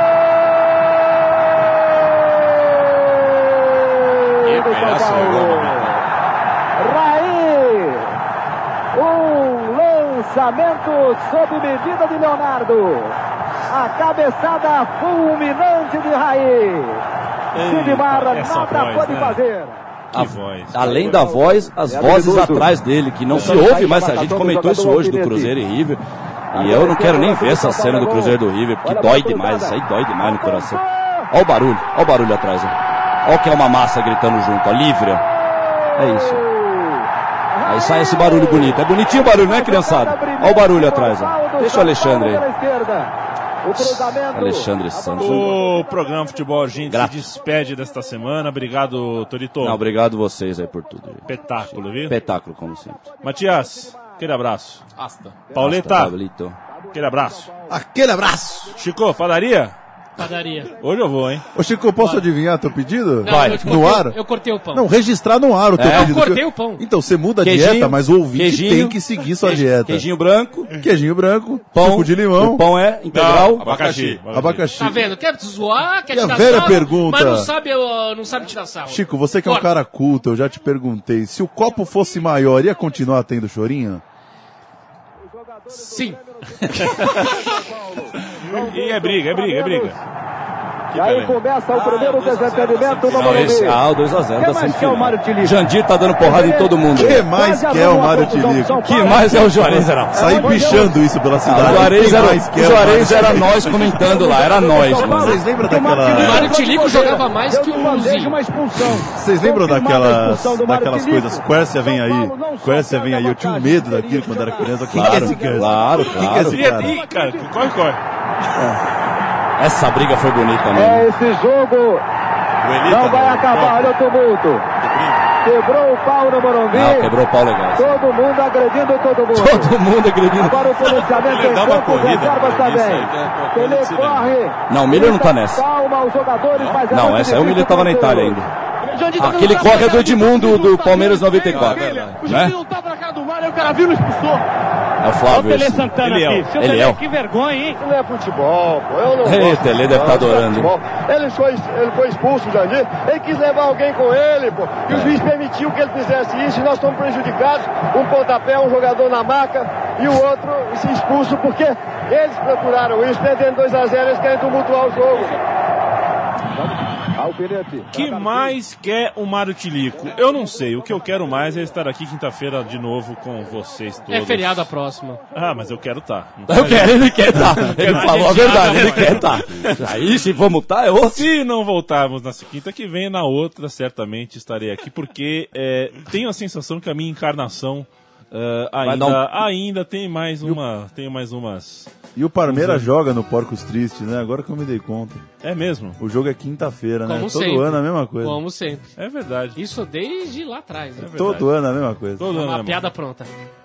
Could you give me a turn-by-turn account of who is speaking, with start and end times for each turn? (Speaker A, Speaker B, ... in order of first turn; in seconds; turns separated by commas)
Speaker A: 4.4-5.8, Speaker B: 4.5-6.0, Speaker C: 5.1-5.5, Speaker A: 6.8-8.1, Speaker A: 8.9-13.2, Speaker A: 13.7-17.0, Speaker C: 17.5-19.4, Speaker A: 17.6-19.8, Speaker C: 20.1-21.1, Speaker D: 20.1-26.0, Speaker A: 20.8-22.7, Speaker A: 23.3-25.5, Speaker A: 26.5-31.3, Speaker D: 26.5-35.2, Speaker A: 35.9-43.1, Speaker D: 36.0-36.4, Speaker D: 37.7-42.5, Speaker A: 43.6-46.2, Speaker D: 43.8-45.6, Speaker C: 45.2-49.8, Speaker D: 46.9-47.3, Speaker D: 49.6-51.2, Speaker C: 51.2-52.1, Speaker D: 52.1-53.0, Speaker C: 53.2-54.8, Speaker B: 55.0-55.4, Speaker C: 55.5-56.1, Speaker D: 55.6-56.6, Speaker C: 56.9-57.5, Speaker E: 57.7-58.8, Speaker C: 58.8-59.8, Speaker F: 60.2-60.7, Speaker C: 60.8-61.5, Speaker E: 61.5-64.2, Speaker F: 62.0-62.2, Speaker F: 63.2-64.9, Speaker D: 63.2-63.7, Speaker E: 64.7-70.0, Speaker D: 65.8-66.2, Speaker F: 65.8-66.8, Speaker D: 67.4-70.7, Speaker E: 70.7-72.7, Speaker D: 71.7-73.8, Speaker B: 73.1-74.6, Speaker C: 73.2-74.7, Speaker E: 74.3-75.1, Speaker F: 74.8-79.7, Speaker E: 76.1-77.5, Speaker E: 78.9-84.0, Speaker F: 85.7-86.2, Speaker C: 86.6-87.5, Speaker A: 86.9-90.0, Speaker C: 88.2-90.0, Speaker A: 90.9-93.8, Speaker C: 91.0-91.2, Speaker B: 91.8-93.7, Speaker D: 93.1-97.2, Speaker A: 94.3-95.6, Speaker A: 96.2-99.6, Speaker E: 96.9-98.9, Speaker D: 98.8-100.8, Speaker E: 99.6-106.6, Speaker A: 100.1-102.4, Speaker D: 101.4-105.4, Speaker A: 104.0-115.9, Speaker F: 106.1-108.4, Speaker E: 109.0-117.0, Speaker D: 114.9-116.7, Speaker C: 116.4-118.0, Speaker A: 116.9-117.4, Speaker D: 119.6-121.1, Speaker A: 120.7-122.0, Speaker B: 122.6-123.9, Speaker A: 122.8-124.7, Speaker B: 124.8-125.3, Speaker A: 125.4-127.1, Speaker D: 126.7-128.0, Speaker A: 127.8-129.8, Speaker D: 129.3-130.7, Speaker A: 130.3-138.4, Speaker B: 131.1-134.4, Speaker D: 134.7-135.6, Speaker B: 136.5-136.8, Speaker D: 136.9-138.5, Speaker G: 138.8-144.4, Speaker D: 139.2-142.5, Speaker B: 141.5-142.2, Speaker D: 145.0-146.0, Speaker G: 145.2-147.8, Speaker C: 145.9-146.5, Speaker D: 146.6-147.0, Speaker H: 147.8-165.3, Speaker D: 149.2-150.7, Speaker A: 150.1-150.6, Speaker D: 154.9-155.2, Speaker A: 166.6-168.5, Speaker C: 167.9-174.7, Speaker F: 174.1-175.2, Speaker C: 175.3-180.0, Speaker D: 176.5-181.3, Speaker F: 177.6-179.4, Speaker C: 181.2-191.9, Speaker D: 188.8-189.2, Speaker E: 192.2-195.2, Speaker C: 192.4-192.9, Speaker C: 195.4-196.0, Speaker E: 196.0-198.4, Speaker F: 197.1-198.9, Speaker C: 199.0-199.6, Speaker F: 199.6-201.2, Speaker E: 201.0-202.3, Speaker C: 201.0-201.5, Speaker C: 202.2-202.9, Speaker F: 202.3-203.3